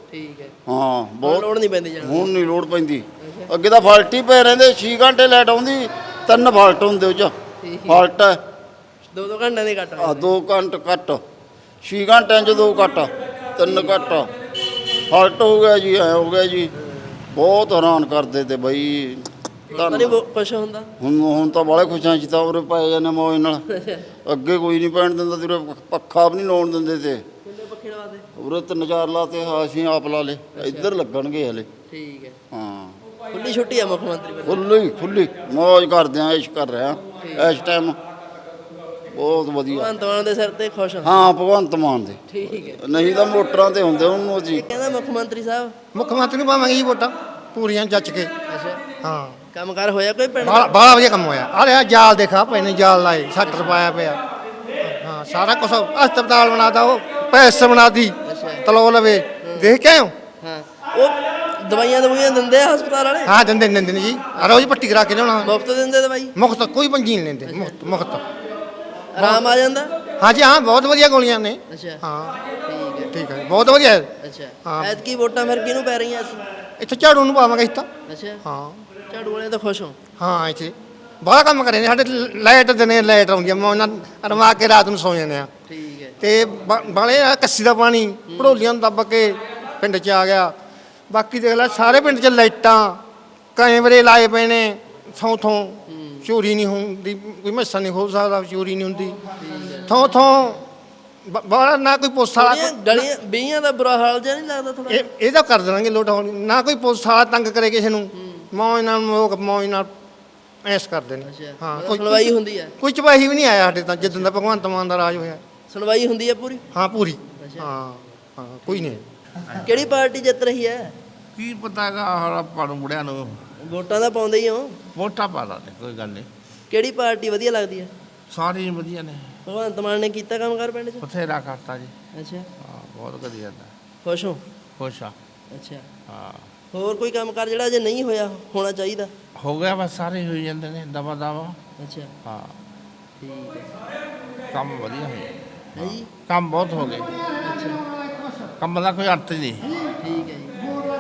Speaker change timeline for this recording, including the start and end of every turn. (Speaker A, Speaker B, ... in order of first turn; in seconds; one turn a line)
Speaker A: 0.1-0.6
Speaker B: 0.7-1.4
Speaker A: 1.2-2.3
Speaker B: 2.0-7.3
Speaker A: 3.2-3.5
Speaker A: 7.6-8.1
Speaker B: 7.9-8.4
Speaker A: 9.1-10.3
Speaker B: 10.0-11.2
Speaker B: 11.8-14.3
Speaker A: 13.6-14.0
Speaker B: 15.1-16.7
Speaker A: 16.8-17.1
Speaker B: 17.3-20.2
Speaker A: 19.7-20.9
Speaker B: 21.0-23.6
Speaker A: 23.8-24.0
Speaker B: 24.3-27.2
Speaker A: 27.4-28.3
Speaker B: 28.4-31.7
Speaker A: 30.5-30.9
Speaker A: 31.9-32.4
Speaker B: 32.5-33.0
Speaker A: 33.3-34.6
Speaker B: 34.4-38.0
Speaker A: 37.2-37.6
Speaker B: 39.1-39.9
Speaker A: 39.7-41.3
Speaker B: 41.0-42.2
Speaker A: 42.3-42.8
Speaker B: 42.8-44.6
Speaker A: 44.6-45.8
Speaker C: 46.0-48.3
Speaker A: 48.5-48.8
Speaker C: 49.0-49.4
Speaker A: 49.5-50.7
Speaker C: 50.4-54.2
Speaker A: 53.5-53.8
Speaker C: 54.8-60.2
Speaker A: 58.2-58.6
Speaker A: 59.4-59.7
Speaker A: 60.4-63.3
Speaker C: 63.3-65.5
Speaker A: 64.3-64.7
Speaker A: 65.4-66.3
Speaker C: 66.4-68.2
Speaker A: 67.5-67.8
Speaker A: 69.1-69.9
Speaker C: 69.2-69.5
Speaker C: 70.2-72.4
Speaker A: 71.7-72.0
Speaker A: 72.7-73.1
Speaker C: 73.1-74.1
Speaker A: 74.2-76.5
Speaker C: 74.7-75.0
Speaker C: 76.8-77.9
Speaker A: 78.1-78.4
Speaker C: 78.4-78.8
Speaker A: 79.1-80.0
Speaker C: 80.2-85.5
Speaker A: 85.7-86.2
Speaker C: 86.2-90.5
Speaker A: 88.3-88.6
Speaker C: 91.1-93.0
Speaker C: 93.6-100.6
Speaker A: 95.9-96.3
Speaker A: 99.4-100.0
Speaker C: 101.3-103.1
Speaker A: 102.4-105.0
Speaker C: 104.9-109.9
Speaker A: 108.1-108.5
Speaker C: 110.7-115.4
Speaker A: 111.2-112.7
Speaker A: 114.0-114.3
Speaker A: 115.7-116.6
Speaker C: 116.7-119.0
Speaker A: 117.4-117.7
Speaker A: 118.7-119.0
Speaker A: 119.6-120.9
Speaker D: 121.4-123.4
Speaker A: 123.6-124.8
Speaker D: 125.0-126.3
Speaker A: 126.7-127.9
Speaker D: 128.3-129.3
Speaker A: 129.4-131.0
Speaker D: 131.0-131.9
Speaker A: 132.1-132.5
Speaker D: 132.6-133.7
Speaker A: 134.0-134.4
Speaker D: 134.8-135.2
Speaker A: 135.5-135.9
Speaker D: 136.1-136.5
Speaker A: 136.7-139.1
Speaker D: 139.4-141.6
Speaker A: 141.8-142.1
Speaker D: 142.2-142.6
Speaker A: 143.2-143.7
Speaker D: 144.5-147.3
Speaker A: 145.8-146.1
Speaker A: 147.4-147.8
Speaker D: 148.6-149.7
Speaker A: 150.0-150.7